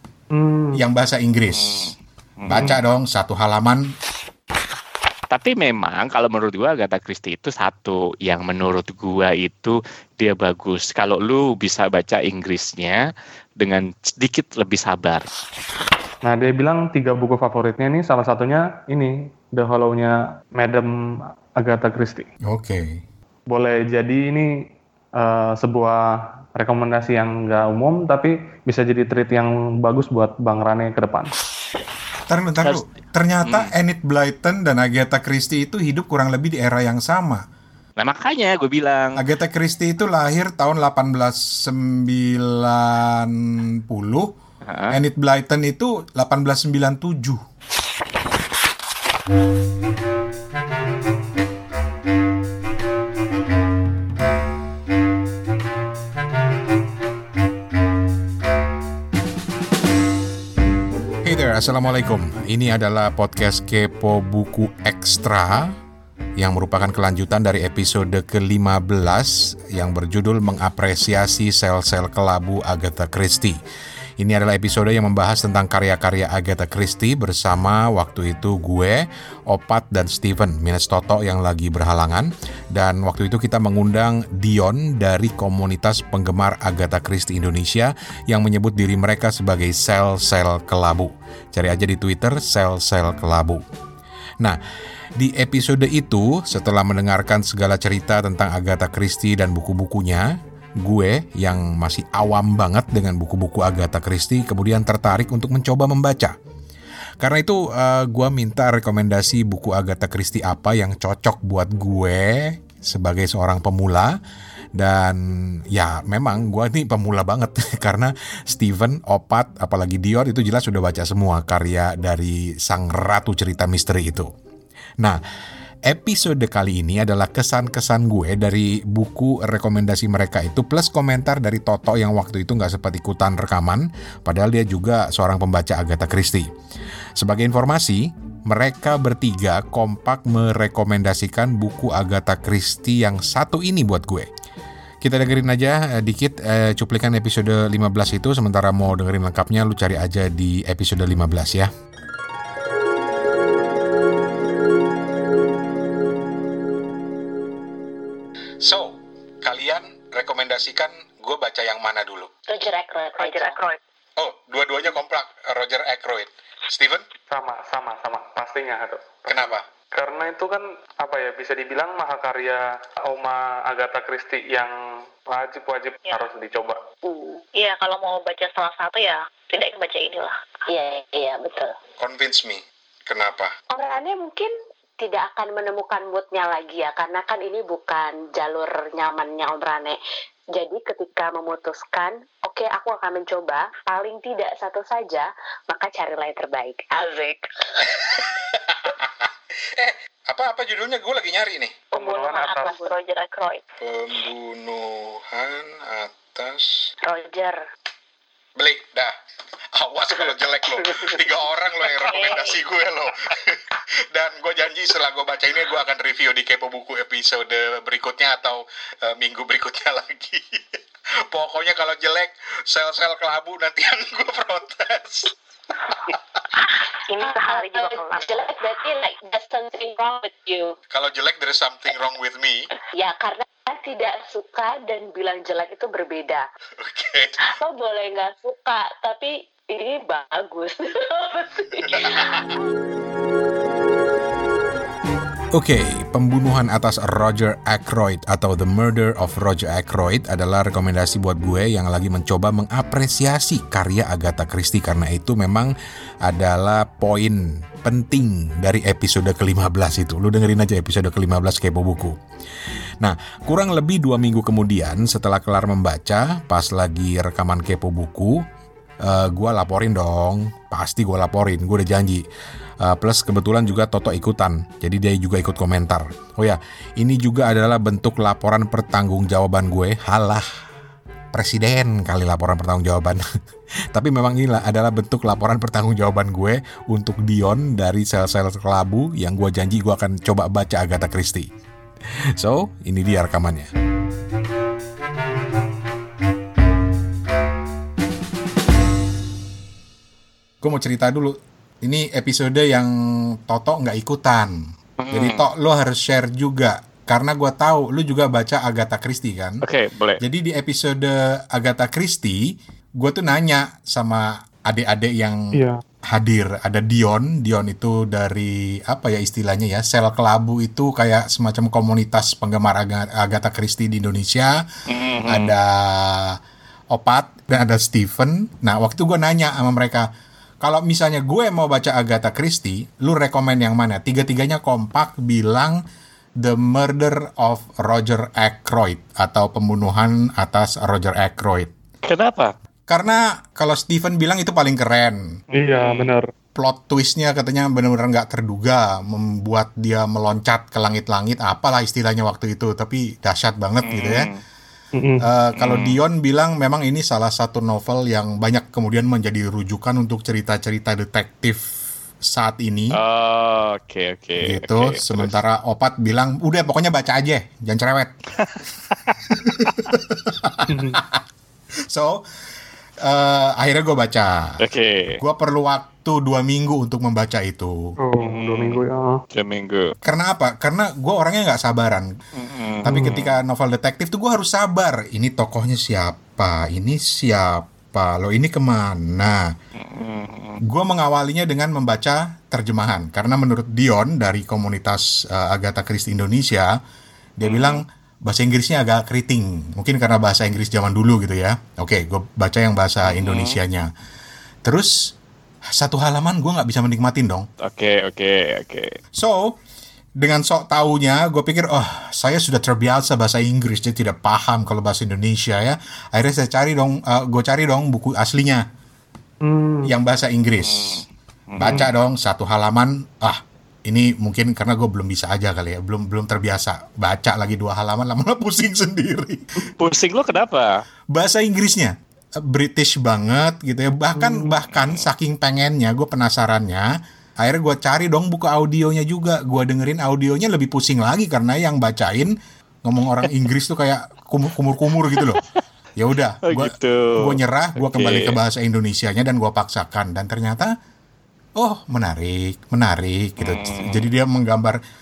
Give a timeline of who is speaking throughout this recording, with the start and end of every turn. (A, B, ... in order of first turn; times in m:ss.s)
0:00.3-0:00.8 A
0:00.7-0:01.9 B
0:01.5-0:02.7 C
0:02.4-0:03.9 B
0:05.3-0:13.0 C
0:13.6-0:15.2 C
0:16.2-0:20.9 A
0:21.6-0:22.3 A
0:22.5-0:23.0 B
0:23.5-0:24.5 A
0:25.2-0:31.3 A
0:32.3-0:37.4 B
0:33.4-0:33.7 C
0:38.0-0:39.1 C
0:39.2-0:44.3 B
0:44.6-0:45.0 C
0:44.9-0:47.4 B
1:01.2-1:05.7 B
1:06.4-1:13.6 B
1:14.2-1:33.6 B
1:35.2-1:40.3 B
1:40.8-1:46.3 B
1:47.2-1:54.2 B
1:54.8-1:55.2 B
1:55.7-2:04.3 B
2:05.9-2:16.5 B
2:17.2-2:24.3 B
2:25.0-2:31.7 B
2:38.6-2:42.3 B
2:42.5-2:43.6 D
2:43.2-2:43.8 E
2:44.2-2:47.0 B
2:47.3-2:54.7 A
2:49.2-2:49.6 B
2:55.3-2:56.8 A
2:57.0-2:57.4 D
2:57.5-3:00.4 E
3:00.7-3:01.7 D
3:02.0-3:03.5 B
3:03.7-3:10.0 D
3:10.5-3:17.1 D
3:17.0-3:17.4 E
3:17.9-3:21.7 B
3:21.9-3:23.6 E
3:21.9-3:22.8 A
3:23.8-3:26.9 B
3:27.1-3:27.5 D
3:28.6-3:29.1 B
3:29.7-3:45.3 B
3:32.0-3:32.6 E
3:46.6-3:48.4 E
3:47.2-3:50.7 D
3:50.9-3:52.7 B
3:52.9-3:56.4 D
3:56.8-3:57.4 B
3:57.4-4:02.5 D
4:01.8-4:02.5 B
4:05.5-4:15.7 B
4:16.2-4:22.1 B
4:23.0-4:28.4 B
4:29.0-4:32.2 B
4:32.8-4:40.4 B
4:41.3-4:43.2 B
4:43.9-4:51.5 B
4:52.4-4:53.7 B
5:00.6-5:02.9 B
5:03.5-5:04.6 B
5:05.0-5:05.4 C
5:05.1-5:09.6 B
5:09.6-5:10.2 C
5:10.2-5:12.4 B
5:13.0-5:15.5 B
5:16.1-5:24.6 B
5:24.9-5:25.5 C
5:25.2-5:26.4 B
5:26.9-5:30.1 B
5:30.6-5:35.8 B
5:36.4-5:41.7 B
5:42.0-5:42.5 C
5:42.9-5:45.4 B
5:45.5-5:46.3 A
5:45.6-5:46.1 C
5:46.6-5:54.3 B
5:53.8-5:54.4 C
5:54.9-5:55.2 A
5:55.2-6:01.6 B
5:55.6-5:56.0 C
6:02.2-6:03.0 B
6:02.9-6:05.4 C
6:04.4-6:08.2 B
6:08.4-6:09.2 C
6:09.3-6:11.2 B
6:10.7-6:11.0 A
6:11.9-6:12.2 B
6:13.0-6:14.6 B
6:14.6-6:15.1 C
6:15.2-6:17.8 B
6:18.0-6:19.2 A
6:18.2-6:19.9 C
6:20.0-6:22.1 B
6:22.3-6:23.4 C
6:22.8-6:29.4 B
6:29.8-6:30.6 C
6:30.6-6:36.7 B
6:37.4-6:43.9 B
6:37.4-6:37.8 C
6:43.0-6:43.6 C
6:44.6-6:44.9 B
6:45.7-6:47.5 B
6:47.6-6:48.9 C
6:49.1-6:49.6 B
6:50.2-6:58.6 B
6:59.4-6:59.9 A
6:59.8-7:01.0 B
7:00.6-7:01.9 C
7:01.6-7:09.5 B
7:09.8-7:10.8 C
7:11.1-7:11.9 B
7:12.4-7:16.9 B
7:14.1-7:14.4 A
7:14.7-7:15.0 C
7:17.4-7:25.4 B
7:25.2-7:25.5 C
7:26.0-7:30.7 B
7:26.4-7:28.4 C
7:31.6-7:34.8 B
7:33.4-7:34.1 C